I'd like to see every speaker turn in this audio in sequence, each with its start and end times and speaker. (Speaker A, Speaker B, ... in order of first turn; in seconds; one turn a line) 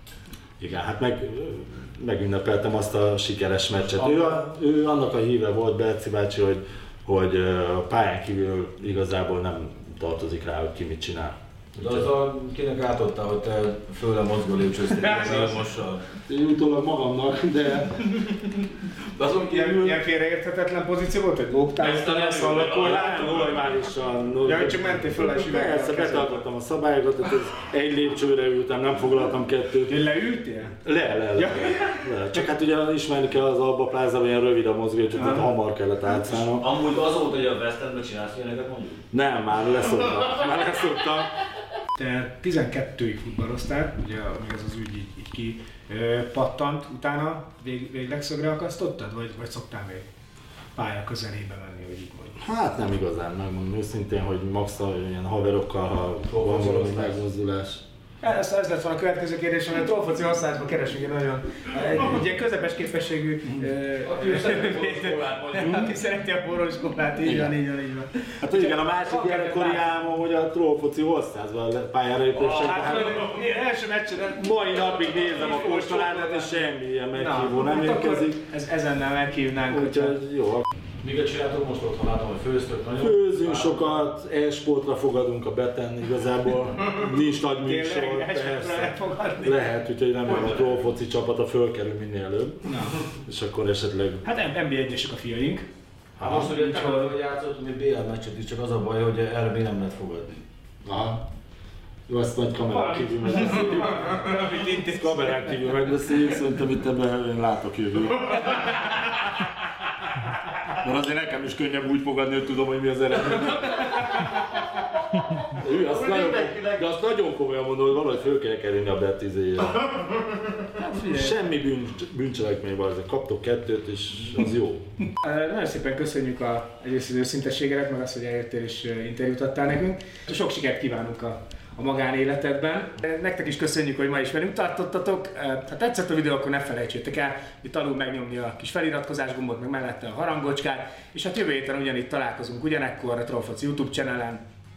Speaker A: 0.6-11.3
Speaker B: 11.8-16.1
Speaker C: 15.1-15.5
Speaker A: 16.3-18.4
Speaker B: 19.1-20.0
Speaker C: 19.3-23.5
Speaker B: 22.0-22.7
Speaker A: 22.5-30.0
Speaker C: 24.4-26.4
Speaker C: 29.9-30.8
Speaker A: 30.8-36.7
Speaker C: 31.3-32.0
Speaker C: 35.2-35.5
Speaker B: 36.2-39.1
Speaker A: 39.1-41.3
Speaker C: 42.0-50.1
Speaker C: 50.8-52.4
Speaker A: 52.4-57.9
Speaker B: 56.3-57.1
Speaker C: 58.2-69.8
Speaker B: 64.0-65.8
Speaker A: 67.3-67.5
Speaker A: 68.4-73.4
Speaker C: 72.4-74.6
Speaker A: 74.2-78.4
Speaker C: 75.2-76.6
Speaker C: 77.2-80.2
Speaker A: 79.7-80.7
Speaker B: 81.0-84.0
Speaker A: 83.0-94.2
Speaker C: 87.6-89.7
Speaker C: 92.7-93.0
Speaker C: 94.2-95.7
Speaker A: 96.2-96.5
Speaker B: 96.2-100.5
Speaker C: 96.4-97.1
Speaker A: 100.8-101.2
Speaker A: 102.1-109.5
Speaker C: 103.5-105.3
Speaker A: 110.7-120.3
Speaker C: 120.8-121.3
Speaker A: 121.0-124.9
Speaker C: 125.1-144.4